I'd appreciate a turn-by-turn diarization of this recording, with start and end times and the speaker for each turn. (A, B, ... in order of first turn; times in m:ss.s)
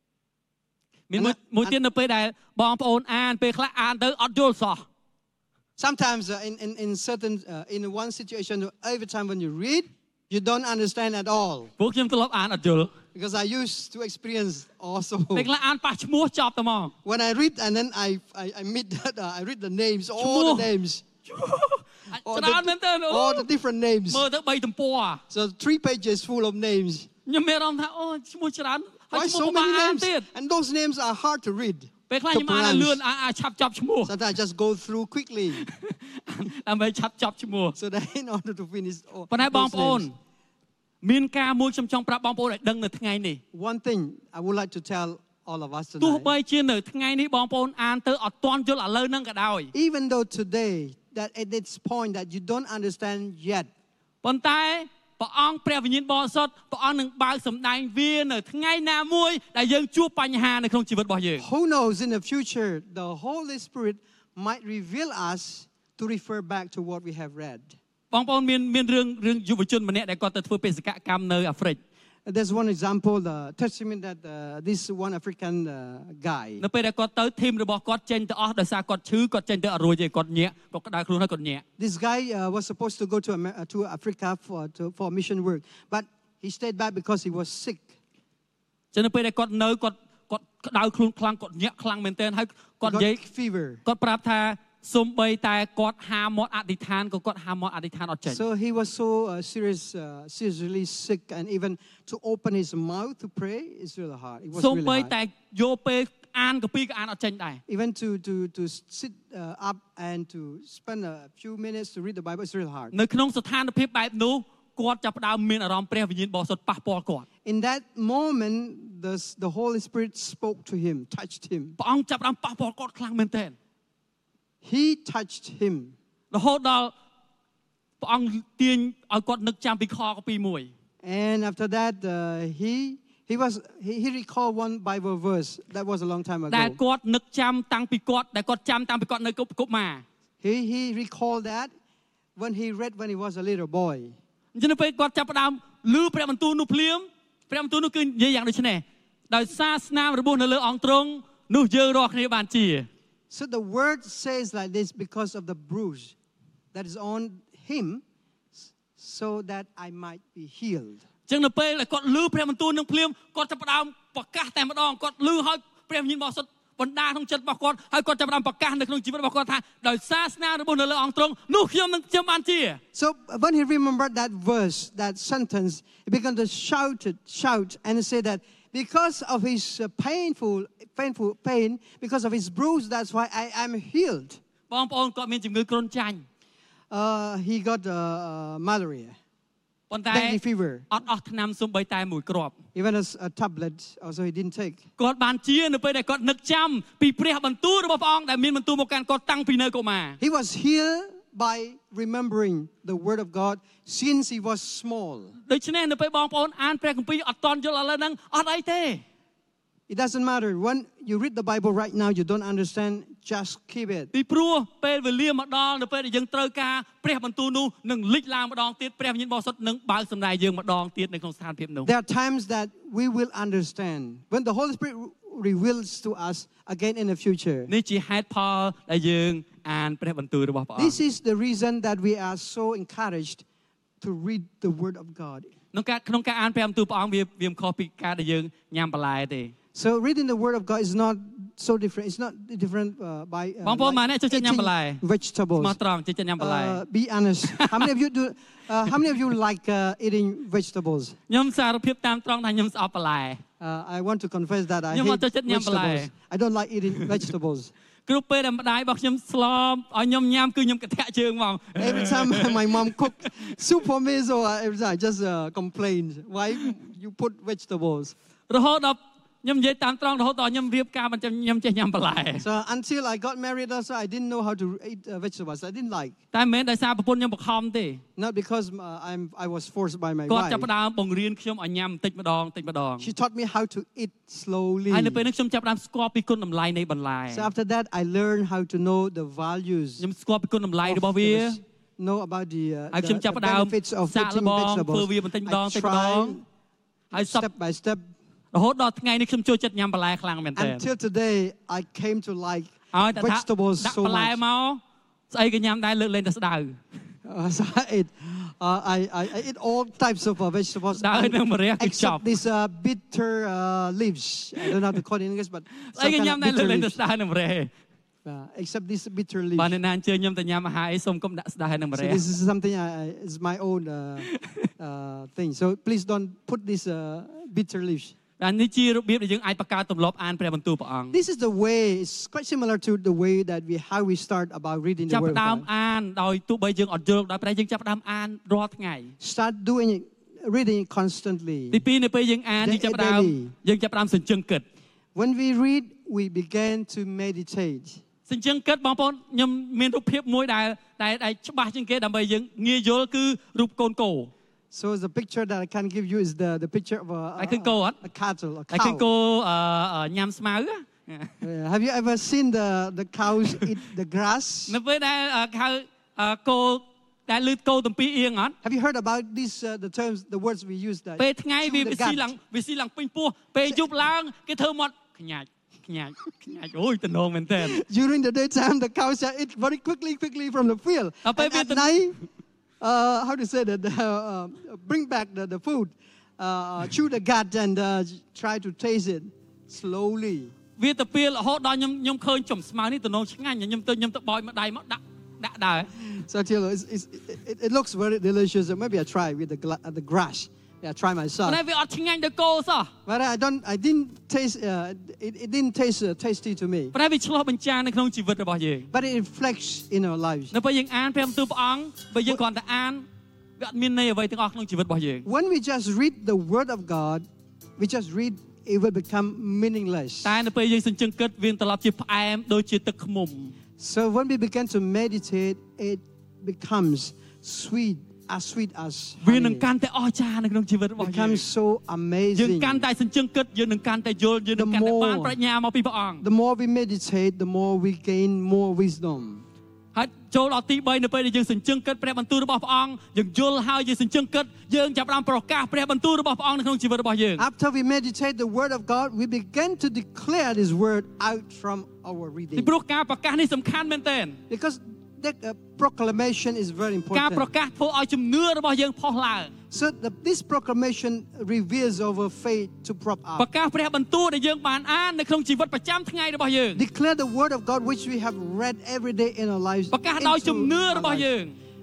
0:01.1-0:04.8 A
0:01.1-0:01.8 B
0:05.8-0:11.7 B
0:11.8-0:12.9 A
0:13.1-0:15.5 B
0:15.3-0:16.9 A
0:17.0-0:21.0 B
0:20.2-0:20.7 A
0:21.2-0:23.4 A
0:22.2-0:24.2 B
0:24.1-0:25.2 A
0:25.3-0:27.1 B
0:27.2-0:30.3 A
0:29.1-0:33.0 B
0:32.1-0:34.1 A
0:34.0-0:35.6 B
0:35.6-0:37.8 A
0:37.7-0:40.1 B
0:39.3-0:40.1 A
0:41.0-0:43.4 A
0:43.5-0:46.3 B
0:46.0-0:49.7 A
0:49.7-0:53.7 B
0:54.2-1:01.4 A
1:01.4-1:07.7 B
1:08.1-1:11.8 A
1:12.2-1:16.6 B
1:16.6-1:21.6 A
1:21.8-1:27.9 B
1:28.9-1:33.2 A
1:32.8-1:33.8 B
1:33.8-1:38.4 A
1:38.3-1:45.1 B
1:44.5-1:47.6 A
1:47.7-1:52.9 B
1:52.9-1:57.2 A
1:57.4-2:01.8 B
2:01.8-2:03.5 A
2:04.6-2:05.9 B
2:06.3-2:06.9 A
2:08.0-2:10.7 A
2:11.0-2:16.8 B
2:16.5-2:20.0 A
2:20.4-2:21.7 B
2:22.4-2:24.2 B
2:24.5-2:32.9 A
2:33.3-2:36.1 B
2:36.7-2:38.0 B
2:38.6-2:41.0 B
2:41.3-2:52.8 A
2:52.9-3:04.4 B
3:04.7-3:06.2 A
3:06.9-3:09.2 B
3:09.9-3:12.5 A
3:10.1-3:10.8 B
3:12.7-3:14.8 B
3:15.0-3:20.2 A
3:20.2-3:25.3 B
3:25.5-3:29.0 A
3:29.9-3:34.1 B
3:34.1-3:41.9 A
3:41.8-3:47.7 B
3:47.7-3:51.0 A
3:50.8-3:53.4 B
3:54.0-3:55.5 B
3:55.7-3:59.5 A
3:59.7-4:05.8 B
4:03.6-4:05.0 A
4:05.6-4:06.8 A
4:06.4-4:11.1 B
4:07.5-4:07.9 A
4:11.3-4:13.4 A
4:13.6-4:17.7 B
4:14.9-4:16.1 A
4:18.1-4:22.8 A
4:21.8-4:28.1 B
4:28.5-4:32.4 A
4:32.4-4:36.1 B
4:36.3-4:38.0 A
4:38.2-4:40.7 B
4:40.3-4:43.1 A
4:43.0-4:45.2 B
4:44.9-4:47.5 A
4:47.3-4:50.0 B
4:50.0-4:51.6 A
4:50.8-4:56.4 B
4:52.9-4:56.4 A
4:57.1-4:57.5 A
4:57.1-4:58.1 B
4:58.5-5:00.8 A
5:00.6-5:04.4 B
5:02.9-5:06.8 A
5:07.2-5:17.0 B
5:10.9-5:12.3 A
5:15.8-5:17.7 A
5:18.2-5:19.8 B
5:19.6-5:22.2 A
5:21.9-5:28.1 B
5:24.3-5:24.7 A
5:28.4-5:31.2 A
5:31.1-5:35.6 B
5:35.1-5:39.1 A
5:39.2-5:41.8 B
5:41.7-5:44.6 A
5:42.6-5:43.5 B
5:45.1-5:48.0 B
5:48.3-5:54.3 A
5:54.7-5:59.1 B
5:57.4-5:58.0 A
5:58.7-6:01.3 A
6:01.4-6:04.8 B
6:04.7-6:08.5 A
6:08.6-6:12.3 B
6:11.2-6:17.8 A
6:17.6-6:22.2 B
6:21.2-6:22.0 A
6:22.8-6:30.5 B
6:30.8-6:35.9 A
6:35.9-6:41.6 B
6:41.4-6:42.9 A
6:43.0-6:46.9 B
6:46.9-6:48.9 A
6:48.9-6:50.5 B
6:50.5-6:53.1 A
6:53.6-6:55.2 A
6:55.2-6:57.2 B
6:57.8-7:00.4 B
7:00.2-7:03.5 A
7:03.8-7:09.6 B
7:09.2-7:11.4 A
7:11.0-7:12.8 B
7:12.3-7:16.2 A
7:14.5-7:15.4 B
7:16.2-7:19.4 B
7:19.9-7:27.4 A
7:27.4-7:32.7 B
7:32.6-7:34.4 A
7:34.5-7:37.5 B
7:37.1-7:39.5 A
7:39.7-7:43.5 B
7:43.4-7:46.8 A
7:46.7-7:51.3 B
7:49.9-7:51.6 A